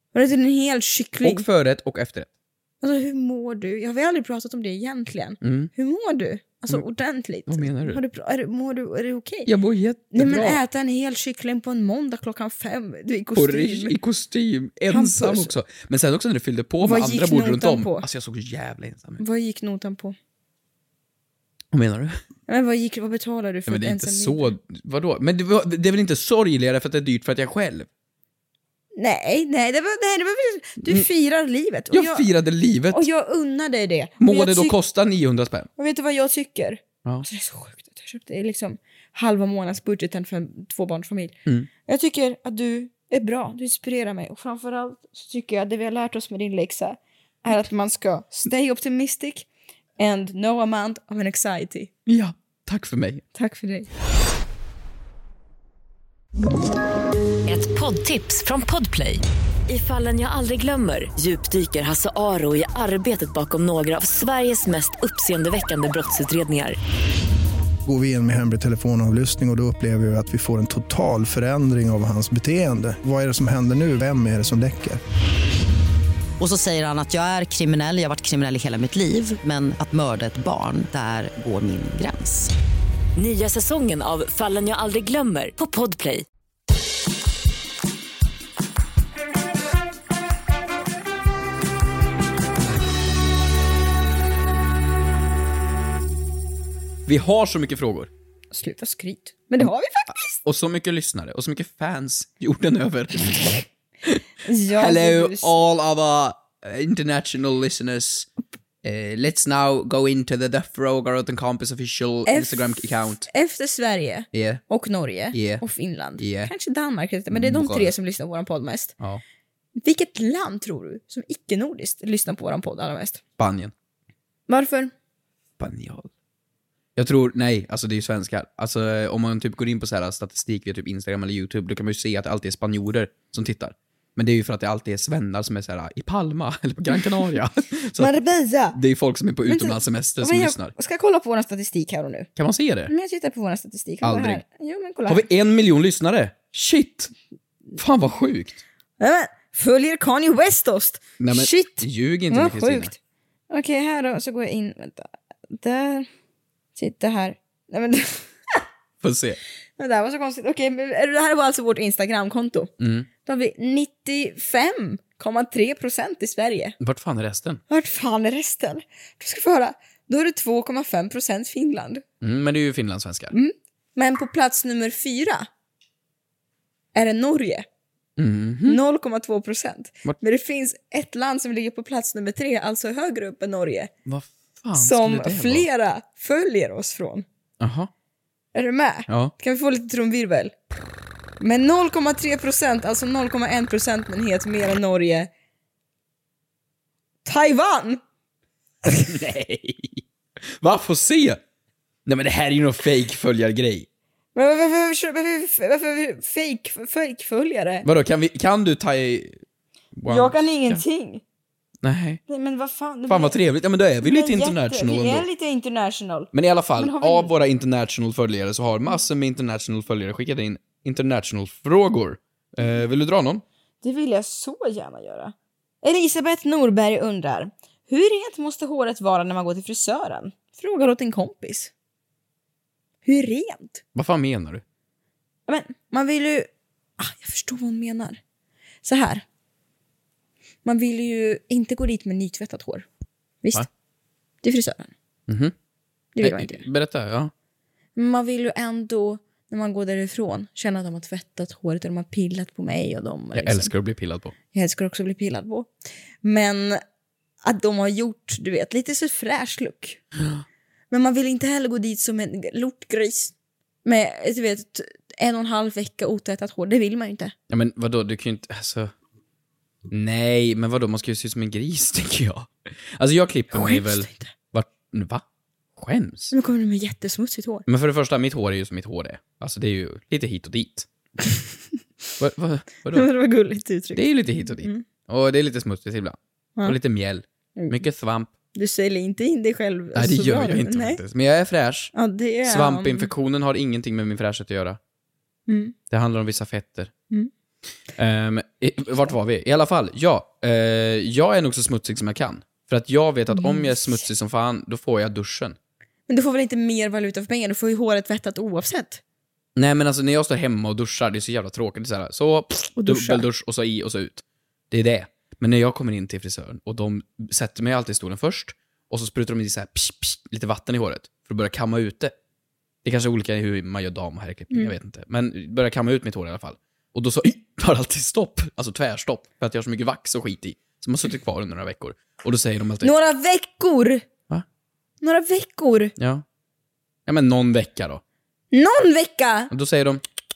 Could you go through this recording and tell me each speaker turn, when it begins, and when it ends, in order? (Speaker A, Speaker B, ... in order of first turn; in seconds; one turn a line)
Speaker A: 0.1-1.4
Speaker B: 1.2-2.3
Speaker A: 2.8-9.5
Speaker B: 5.4-5.7
Speaker B: 7.5-8.0
Speaker B: 9.5-10.6
Speaker A: 10.1-14.0
Speaker B: 13.3-19.2
Speaker A: 14.9-15.6
Speaker A: 16.8-18.1
Speaker A: 19.2-20.2
Speaker B: 21.7-22.2
Speaker A: 22.5-24.5
Speaker B: 23.7-27.9
Speaker A: 28.9-32.3
Speaker B: 31.9-33.1
Speaker A: 32.9-34.8
Speaker B: 34.2-35.7
Speaker A: 35.8-49.5
Speaker A: 50.0-51.9
Speaker B: 52.1-53.2
Speaker A: 53.4-53.9
Speaker C: 57.5-66.8
Speaker D: 67.8-75.0
Speaker E: 76.4-82.5
Speaker C: 83.2-86.2
Speaker B: 97.1-98.1
Speaker A: 98.5-100.4
Speaker B: 100.4-108.3
Speaker A: 104.4-105.5
Speaker B: 108.8-113.3
Speaker A: 112.3-118.9
Speaker B: 114.3-114.6
Speaker B: 115.3-115.6
Speaker B: 116.2-116.5
Speaker B: 117.3-117.9
Speaker A: 119.8-123.2
Speaker B: 123.4-123.7
Speaker A: 124.5-124.9
Speaker B: 125.6-126.1
Speaker B: 127.0-138.1
Speaker A: 138.0-138.8
Speaker B: 138.7-140.7
Speaker A: 139.5-142.3
Speaker B: 142.4-142.9
Speaker A: 142.9-145.3
Speaker B: 144.0-144.4
Speaker B: 145.1-147.1
Speaker B: 147.8-148.6
Speaker A: 149.0-153.0
Speaker B: 151.2-152.9
Speaker A: 153.5-156.1
Speaker A: 156.8-158.6
Speaker B: 159.0-159.4
Speaker A: 159.8-162.7
Speaker B: 162.8-163.1
Speaker A: 163.2-166.8
Speaker B: 166.8-167.6
Speaker A: 167.7-172.0
Speaker B: 172.2-173.3
Speaker A: 173.3-175.5
Speaker A: 176.9-177.7
Speaker B: 178.2-178.8
Speaker A: 178.7-183.9
Speaker B: 184.1-185.7
Speaker A: 184.8-187.3
Speaker B: 187.6-187.9
Speaker A: 188.6-190.6
Speaker B: 189.1-189.3
Speaker A: 191.4-195.3
Speaker A: 197.2-198.0
Speaker B: 199.0-201.4
Speaker B: 202.1-203.9
Speaker A: 204.3-207.9
Speaker B: 207.8-209.4
Speaker B: 209.9-210.8
Speaker A: 210.1-211.2
Speaker B: 211.8-212.2
Speaker A: 212.3-213.4
Speaker B: 213.1-215.3
Speaker A: 214.0-217.3
Speaker B: 216.3-223.4
Speaker A: 223.8-231.7
Speaker A: 233.1-233.8
Speaker B: 233.9-234.6
Speaker A: 235.5-236.5
Speaker A: 237.0-238.2
Speaker A: 238.8-239.2
Speaker A: 240.7-242.9
Speaker A: 244.4-244.9
Speaker B: 245.3-245.6
Speaker A: 246.2-246.6
Speaker B: 246.2-247.3
Speaker A: 248.0-253.7
Speaker B: 253.3-254.3
Speaker A: 254.5-255.7
Speaker A: 256.2-256.8
Speaker A: 257.4-260.0
Speaker A: 260.9-263.3
Speaker A: 263.9-267.3
Speaker B: 267.5-268.9
Speaker B: 269.9-275.2
Speaker A: 273.5-274.3
Speaker B: 275.8-276.3
Speaker A: 276.3-277.7
Speaker B: 277.7-280.9
Speaker B: 282.2-283.1
Speaker A: 282.9-284.9
Speaker B: 283.9-288.3
Speaker A: 288.5-291.0
Speaker B: 289.9-291.9
Speaker A: 291.9-293.1
Speaker B: 292.4-294.8
Speaker A: 295.5-295.8
Speaker B: 295.9-296.9
Speaker B: 298.0-305.6
Speaker A: 303.3-304.0
Speaker A: 306.1-309.0
Speaker B: 309.6-322.1
Speaker A: 312.8-313.3
Speaker B: 322.8-332.9
Speaker A: 332.8-334.1
Speaker A: 335.0-335.9
Speaker B: 336.0-336.2
Speaker B: 337.1-338.0
Speaker A: 338.5-339.5
Speaker B: 339.5-340.0